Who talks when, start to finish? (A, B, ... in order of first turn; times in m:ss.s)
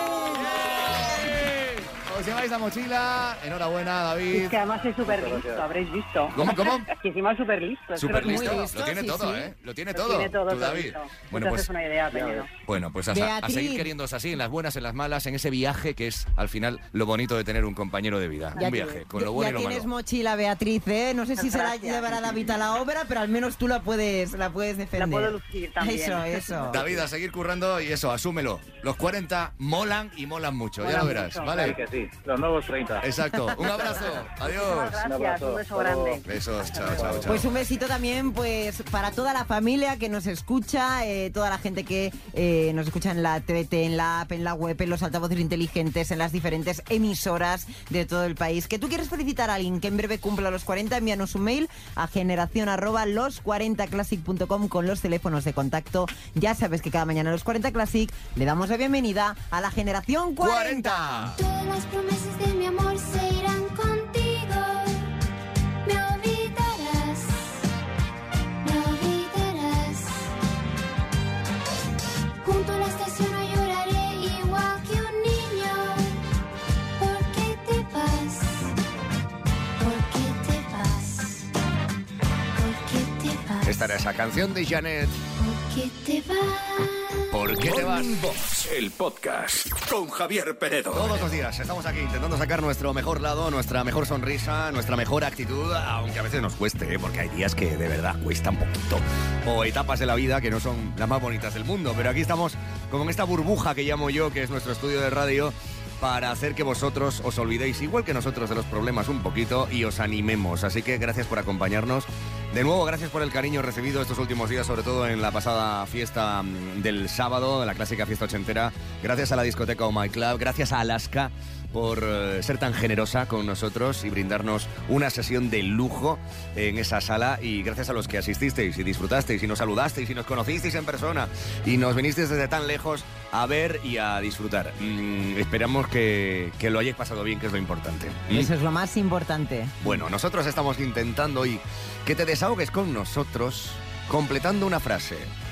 0:00.3-0:04.6 A
0:04.3-0:08.8 B
0:05.0-0:05.7 C
0:06.3-0:06.9 A
0:08.0-0:11.7 A
0:08.2-0:09.5 D
0:09.9-0:12.5 B
0:12.1-0:12.5 C
0:12.6-0:19.9 A
0:13.1-0:13.9 D
0:18.6-0:19.0 B
0:18.6-0:26.8 D
0:21.4-0:22.4 B
0:24.9-0:27.0 B
0:26.7-0:31.8 A
0:30.8-0:31.8 B
0:31.4-0:33.1 C
0:33.0-0:35.0 A
0:33.8-0:36.3 B
0:35.0-0:36.2 C
0:36.2-0:37.5 A
0:36.9-0:37.3 C
0:37.2-1:01.3 D
1:00.4-1:01.4 A
1:01.4-1:05.1 E
1:05.8-1:07.7 E
1:08.6-1:10.3 E
1:12.4-1:16.2 E
1:17.0-1:18.8 E
1:19.8-1:21.5 E
1:22.5-1:24.0 E
1:23.6-1:25.2 A
1:25.3-1:27.4 E
1:27.3-1:28.3 A
1:27.6-1:31.3 F
1:30.9-2:18.5 A
2:18.3-2:19.8 D
2:19.8-2:25.3 A